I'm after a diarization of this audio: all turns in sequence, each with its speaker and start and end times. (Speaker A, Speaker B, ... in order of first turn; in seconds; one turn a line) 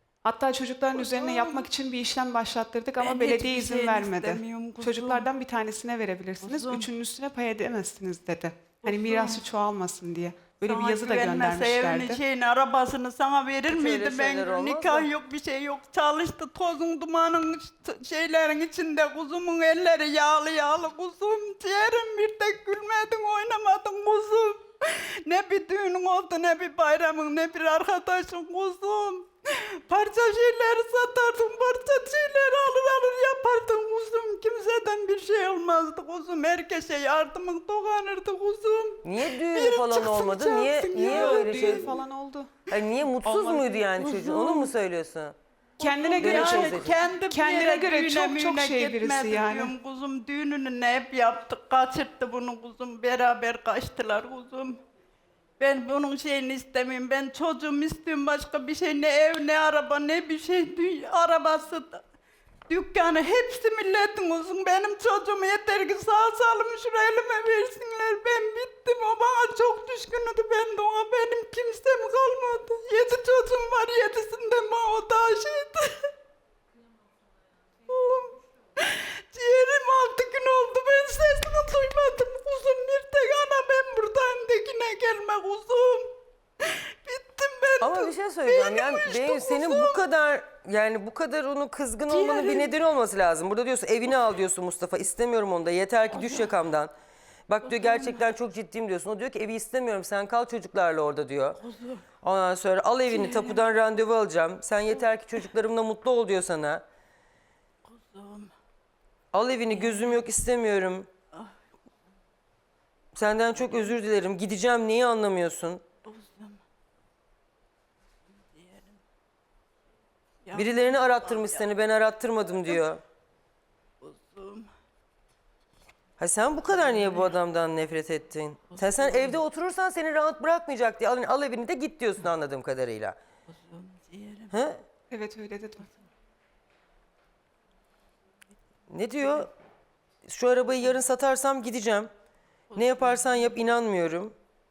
Speaker A: 0.2-12.2
Speaker B: 0.9-1.7
Speaker B: 3.0-5.3
Speaker B: 6.4-6.9
Speaker B: 8.8-9.4
Speaker B: 10.6-42.0
Speaker C: 13.7-15.1
Speaker C: 39.0-41.9
Speaker A: 41.0-42.5
Speaker C: 42.7-45.4
Speaker B: 43.2-44.7
Speaker A: 45.8-49.8
Speaker B: 45.8-54.8
Speaker C: 46.2-47.0
Speaker B: 55.6-62.0
Speaker B: 62.7-76.1
Speaker B: 77.9-90.0
Speaker C: 87.8-96.9
Speaker B: 92.1-92.7
Speaker B: 96.2-96.5
Speaker C: 97.5-101.6
Speaker B: 97.6-98.2
Speaker B: 101.6-102.0
Speaker C: 102.2-106.8
Speaker B: 103.1-103.6
Speaker B: 107.8-108.5
Speaker C: 109.3-111.1
Speaker B: 109.7-110.2
Speaker C: 113.1-115.8
Speaker B: 116.0-116.6
Speaker B: 118.3-119.0
Speaker B: 120.5-121.7
Speaker C: 120.5-123.0
Speaker B: 124.0-124.7
Speaker C: 126.2-133.2
Speaker B: 126.9-127.3
Speaker B: 128.7-129.4
Speaker B: 133.5-134.5
Speaker C: 134.5-134.8
Speaker A: 135.1-135.9
Speaker C: 138.9-139.5
Speaker C: 140.2-142.1
Speaker B: 142.7-143.5
Speaker C: 142.8-144.3